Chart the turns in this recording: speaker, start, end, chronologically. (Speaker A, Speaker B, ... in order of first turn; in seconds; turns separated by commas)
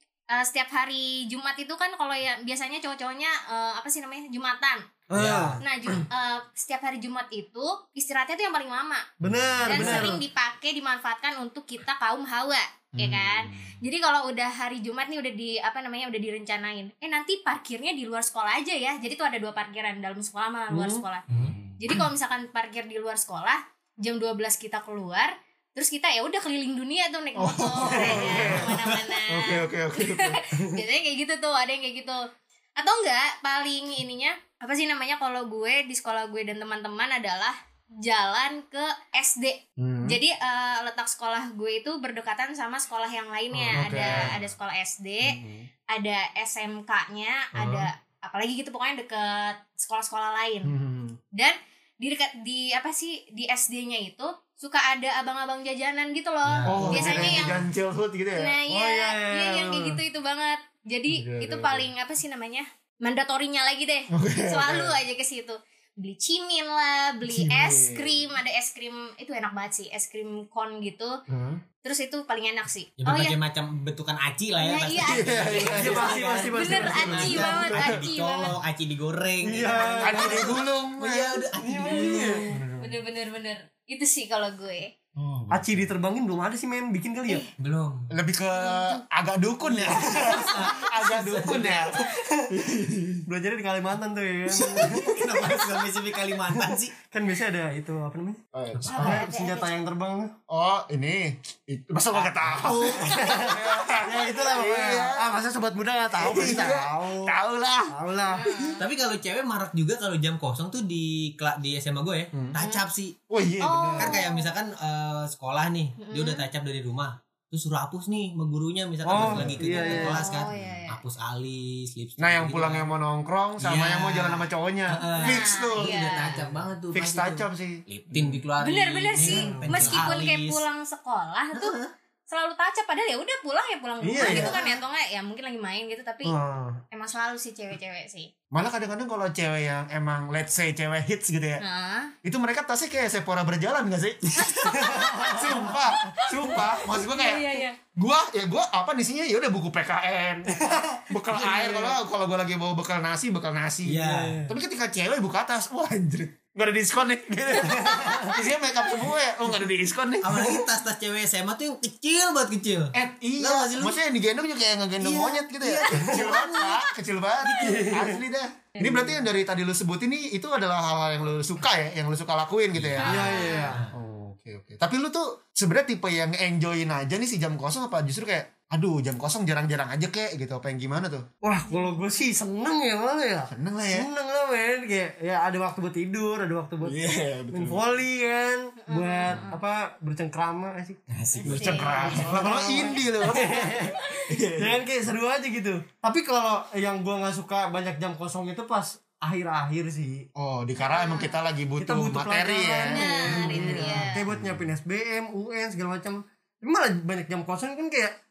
Speaker A: 0.3-4.8, Speaker B: 5.1-5.6, Speaker C: 5.1-5.6, Speaker A: 5.6-9.1, Speaker B: 9.2-10.2, Speaker D: 9.3-10.1, Speaker A: 9.7-21.3, Speaker D: 12.9-13.8, Speaker B: 20.7-21.0, Speaker C: 21.3-22.0, Speaker D: 21.4-21.8, Speaker A: 21.8-45.4, Speaker D: 27.4-30.4, Speaker B: 27.9-28.5, Speaker C: 28.2-29.0, Speaker D: 39.8-40.2, Speaker D: 43.5-44.4, Speaker C: 43.8-44.3, Speaker D: 45.2-45.7, Speaker A: 45.9-50.7, Speaker D: 47.5-47.9, Speaker D: 50.6-51.2, Speaker A: 51.3-57.6, Speaker C: 56.5-57.5, Speaker D: 56.7-58.6, Speaker B: 56.9-57.1, Speaker A: 58.4-71.2, Speaker B: 58.7-60.0, Speaker D: 61.1-61.9, Speaker D: 64.1-65.0, Speaker D: 67.2-68.3, Speaker D: 71.3-71.6, Speaker A: 71.8-73.4, Speaker C: 73.0-82.5, Speaker A: 74.6-78.6, Speaker D: 75.0-76.2, Speaker B: 75.8-77.7, Speaker D: 76.9-78.0, Speaker B: 79.4-80.5, Speaker D: 80.0-81.5, Speaker B: 81.6-82.6, Speaker D: 82.5-83.0, Speaker A: 82.8-84.9, Speaker D: 85.2-85.9, Speaker B: 85.5-87.5, Speaker C: 87.6-88.1, Speaker D: 88.1-93.2, Speaker A: 88.5-89.0, Speaker B: 89.8-90.5, Speaker C: 89.8-91.9, Speaker B: 92.1-92.5, Speaker B: 93.3-95.7, Speaker C: 94.5-96.9, Speaker B: 96.5-98.4, Speaker D: 98.5-99.3, Speaker C: 98.7-99.2, Speaker A: 98.9-99.7, Speaker B: 98.9-100.3, Speaker D: 100.5-105.3, Speaker C: 102.1-103.1, Speaker B: 102.8-107.3, Speaker D: 106.2-107.9, Speaker B: 107.9-108.5, Speaker A: 108.3-108.9, Speaker C: 108.8-113.2, Speaker D: 112.3-112.6, Speaker D: 113.3-114.2, Speaker A: 113.6-114.5, Speaker C: 114.0-122.9, Speaker A: 116.0-116.5, Speaker B: 119.0-120.2, Speaker D: 119.1-120.2, Speaker A: 119.8-121.0, Speaker D: 122.2-126.3, Speaker C: 123.6-130.7, Speaker A: 125.1-126.4, Speaker D: 126.9-128.4, Speaker A: 128.6-131.8, Speaker B: 129.2-130.1, Speaker C: 131.5-131.9, Speaker A: 132.3-136.3, Speaker B: 134.0-134.6, Speaker C: 134.2-134.6, Speaker D: 134.2-134.5, Speaker B: 136.2-136.8, Speaker A: 136.9-138.3, Speaker D: 138.5-141.6, Speaker A: 141.6-142.1, Speaker D: 142.2-160.5, Speaker A: 144.5-147.8, Speaker B: 144.7-145.8, Speaker B: 150.5-151.9, Speaker C: 153.8-154.4, Speaker B: 154.0-154.5, Speaker B: 157.7-158.3, Speaker C: 160.2-164.0, Speaker D: 162.9-173.4, Speaker C: 165.0-166.8, Speaker B: 166.1-166.3, Speaker C: 167.4-167.9, Speaker B: 167.6-168.2, Speaker C: 172.7-173.9, Speaker A: 173.0-173.7, Speaker B: 173.0-173.8, Speaker D: 173.9-181.3, Speaker B: 181.4-187.0, Speaker A: 181.7-182.0, Speaker D: 183.5-184.1, Speaker D: 186.8-187.8, Speaker B: 187.5-194.0, Speaker A: 188.9-189.6, Speaker C: 191.1-192.1, Speaker D: 191.5-194.8, Speaker A: 191.5-192.3, Speaker B: 194.6-200.3, Speaker D: 200.4-204.7, Speaker A: 200.9-201.3, Speaker B: 201.8-208.2, Speaker A: 202.8-204.2